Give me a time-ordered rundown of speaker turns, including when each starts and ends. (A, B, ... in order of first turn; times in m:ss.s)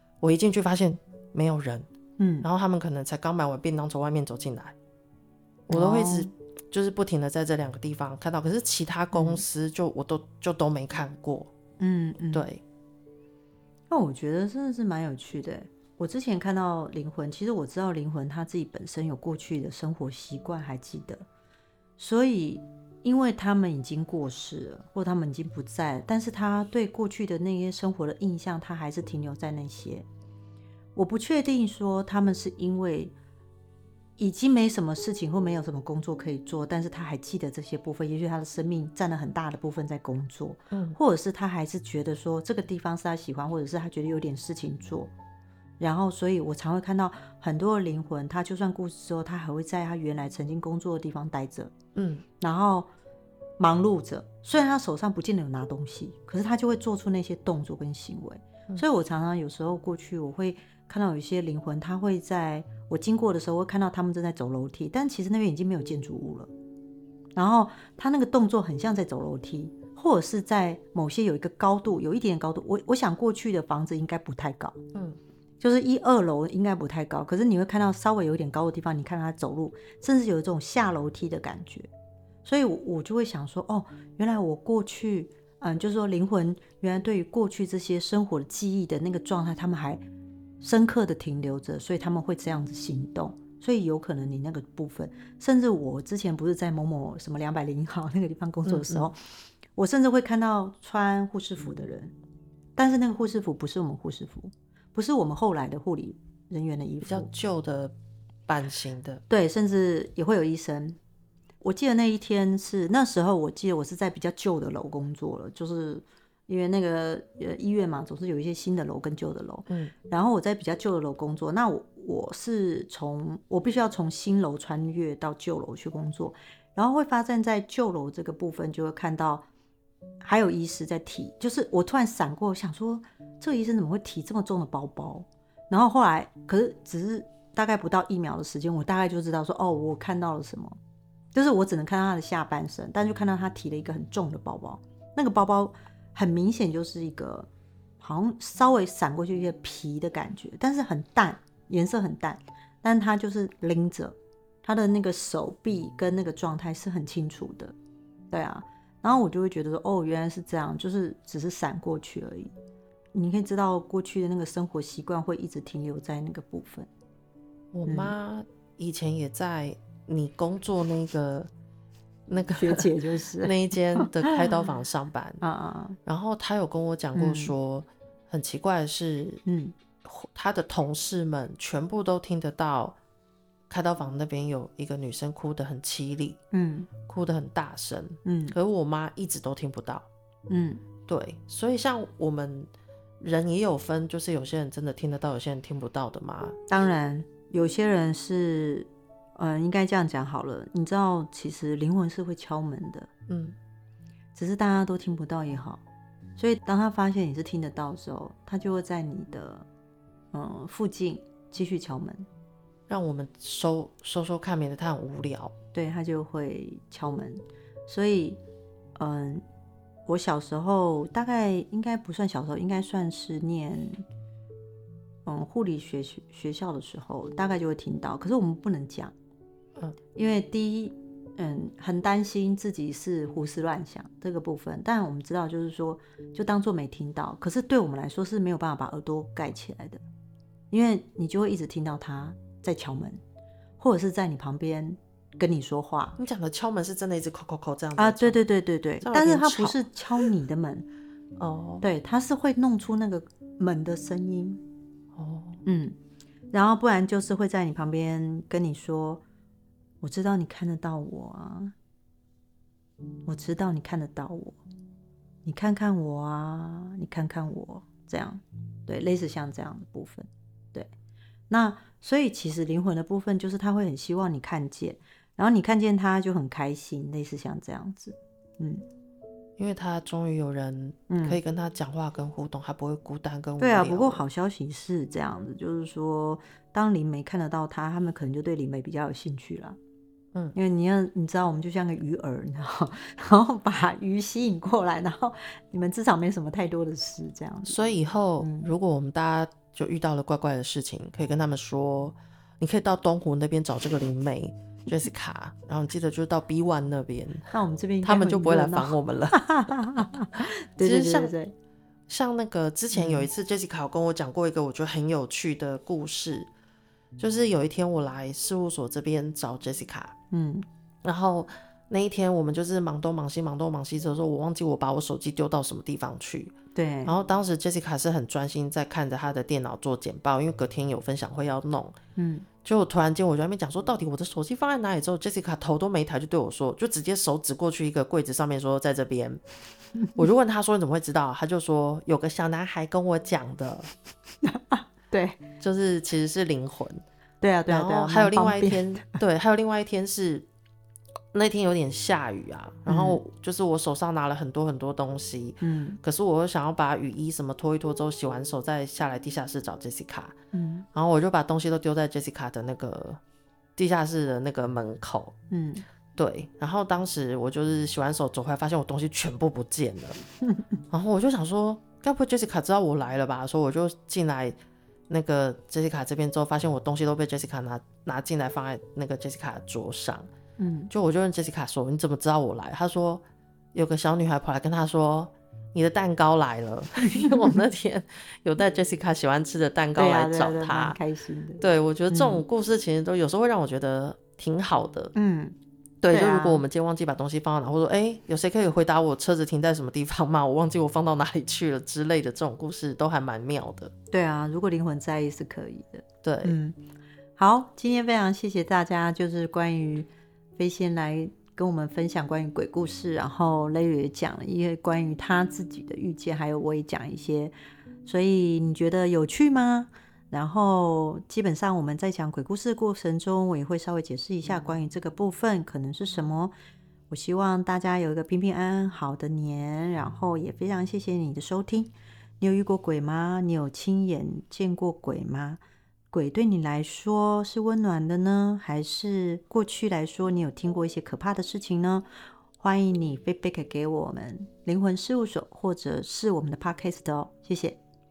0:00.2-0:01.9 A
0:02.2-0:02.5 B
0:02.4-0:04.8 A
0:05.7-0:11.5 A
0:05.7-0:06.3 B
0:09.1-0:09.4 B
0:11.8-0:12.5 B
0:12.3-0:12.6 A
0:13.9-0:21.3 B
0:22.0-0:30.1 B
0:31.0-0:33.1 B
0:34.2-0:45.1 B
0:40.7-0:41.0 A
0:45.8-0:51.7 B
0:52.0-0:52.2 A
0:52.4-0:52.9 B
0:53.6-1:06.5 B
1:07.4-1:14.8 B
1:14.9-1:15.2 A
1:15.6-1:21.9 B
1:22.4-1:30.0 B
1:30.6-1:39.2 B
1:38.6-1:39.1 A
1:39.8-1:42.1 B
1:42.8-1:47.3 B
1:47.0-1:47.9 A
1:48.5-1:49.2 A
1:49.3-1:51.0 B
1:51.6-2:09.5 B
2:10.2-2:20.8 B
2:21.3-2:27.5 B
2:28.0-2:37.8 B
2:38.3-2:42.5 B
2:43.1-2:46.9 B
2:47.7-2:51.5 A
2:47.9-2:48.1 B
2:52.3-2:55.4 A
2:52.6-2:54.4 B
2:55.4-2:56.0 B
2:56.0-2:59.4 A
2:57.2-2:57.5 B
2:59.5-2:59.8 B
3:00.0-3:03.0 A
3:03.7-3:06.4 A
3:06.5-3:06.9 B
3:07.0-3:10.1 A
3:08.2-3:08.6 B
3:10.5-3:10.8 B
3:11.1-3:16.6 A
3:16.7-3:23.1 B
3:23.3-3:23.6 A
3:24.4-3:25.8 B
3:26.4-3:29.7 B
3:30.3-3:32.3 B
3:32.9-3:35.6 A
3:35.7-3:38.4 B
3:39.0-3:39.4 B
3:40.1-3:44.0 B
3:45.3-3:49.1 B
3:50.2-4:00.0 B
4:00.7-4:03.2 B
4:03.8-4:06.2 B
4:06.2-4:08.4 A
4:08.0-4:10.9 B
4:09.0-4:09.8 A
4:11.4-4:11.8 A
4:11.8-4:14.6 B
4:15.1-4:15.6 A
4:15.6-4:16.0 B
4:16.5-4:19.2 B
4:20.0-4:21.7 B
4:23.3-4:24.6 B
4:25.4-4:30.9 B
4:31.5-4:38.8 B
4:39.6-4:44.2 A
4:41.1-4:41.4 B
4:43.6-4:49.8 B
4:50.6-4:57.8 B
4:57.7-5:09.4 A
4:58.4-4:58.7 B
5:07.5-5:11.5 B
5:10.8-5:11.3 A
5:12.1-5:16.5 A
5:12.9-5:13.3 B
5:17.2-5:20.2 A
5:20.3-5:20.7 B
5:21.0-5:26.5 A
5:26.8-5:27.2 B
5:27.0-5:32.0 A
5:32.2-5:32.5 B
5:32.6-5:39.4 A
5:40.2-5:43.9 A
5:44.4-5:45.4 B
5:45.6-5:47.0 A
5:47.4-5:49.2 B
5:47.7-5:50.5 A
5:51.3-6:00.4 A
5:52.9-5:53.2 B
5:55.6-5:56.0 B
6:00.5-6:00.9 B
6:00.9-6:03.2 A
6:03.8-6:05.4 A
6:05.5-6:05.8 B
6:06.2-6:10.2 A
6:10.9-6:14.6 A
6:15.1-6:20.3 A
6:20.6-6:20.9 B
6:20.9-6:23.2 A
6:23.7-6:31.0 A
6:30.0-6:32.4 B
6:31.6-6:35.1 A
6:35.2-6:35.6 B
6:36.0-6:43.9 A
6:36.1-6:36.6 B
6:44.1-6:46.8 B
6:46.2-6:46.6 A
6:47.4-6:57.5 B
6:58.0-7:06.5 B
7:07.1-7:22.1 B
7:22.6-7:27.8 B